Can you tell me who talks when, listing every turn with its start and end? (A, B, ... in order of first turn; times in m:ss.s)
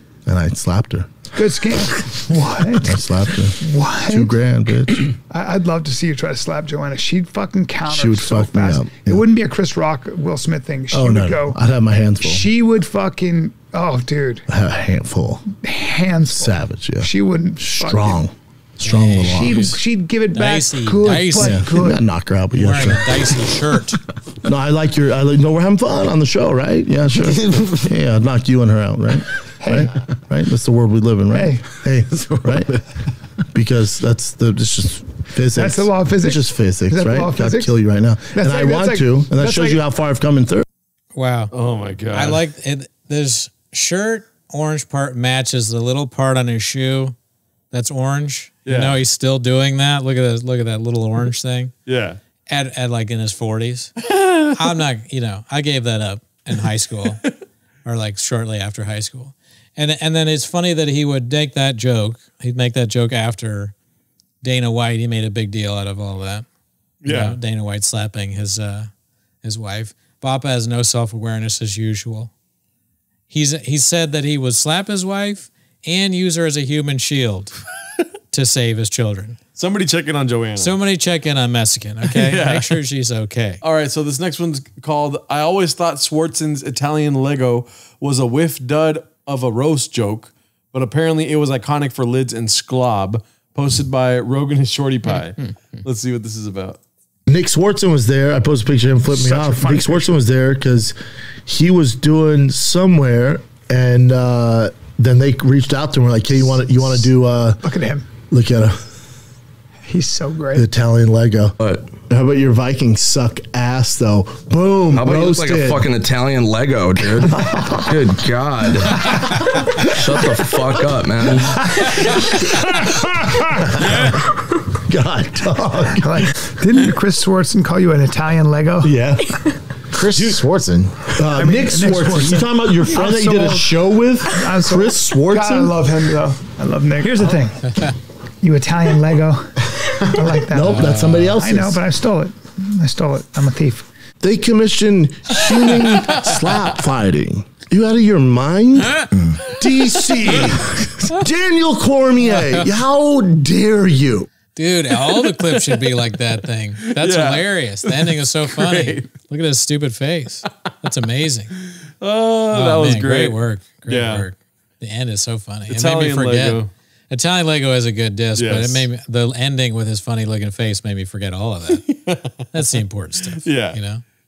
0:00.3-0:01.1 A
0:01.3-0:03.0 B
0:02.8-0:05.1 A
0:03.6-0:04.3 B
0:05.3-0:11.6 B
0:07.9-0:09.2 A
0:10.9-0:12.4 A
0:12.2-0:14.4 B
0:14.5-0:15.4 A
0:15.5-0:18.2 B
0:16.3-0:19.8 A
0:18.8-0:19.7 C
0:19.2-0:22.0 B
0:20.3-0:21.7 C
0:21.4-0:23.4 A
0:22.6-0:24.0 C
0:24.4-0:32.8 A
0:29.6-0:29.9 B
0:31.3-0:31.6 B
0:33.5-0:40.6 A
0:35.6-0:37.7 B
0:38.3-0:39.8 B
0:41.2-0:41.5 C
0:41.5-0:42.4 D
0:42.1-0:47.2 C
0:47.7-0:51.7 C
0:48.6-0:49.0 D
0:51.9-0:52.2 D
0:52.5-0:53.9 C
0:54.1-0:54.5 D
0:54.6-0:57.2 C
0:57.8-1:03.7 C
1:04.4-1:06.5 C
1:07.0-1:07.4 D
1:07.0-1:08.9 C
1:09.4-1:12.3 C
1:13.3-1:17.6 C
1:18.3-1:19.4 C
1:19.6-1:20.8 D
1:20.6-1:23.6 C
1:22.1-1:22.8 D
1:23.6-1:36.8 D
1:37.3-1:47.6 A
1:39.0-1:40.1 B
1:47.6-1:48.1 B
1:48.3-1:48.8 A
1:49.9-1:50.6 B
1:50.5-1:55.9 A
1:51.6-1:51.9 E
1:54.9-2:02.0 E
1:57.0-1:58.1 A
2:01.6-2:03.8 B
2:03.5-2:06.3 A
2:05.9-2:08.9 B
2:08.8-2:09.4 A
2:09.9-2:15.7 A
2:11.3-2:17.9 B
2:18.4-2:23.9 B
2:20.4-2:21.8 A
2:24.2-2:34.3 A
2:34.6-2:41.5 C
2:35.0-2:35.9 D
2:36.8-2:39.1 D
2:42.0-2:44.2 D
2:42.5-2:51.8 C
2:45.7-2:46.7 D
2:48.4-2:48.9 D
2:51.7-2:52.8 D
2:52.5-2:54.0 C
2:53.4-2:53.8 D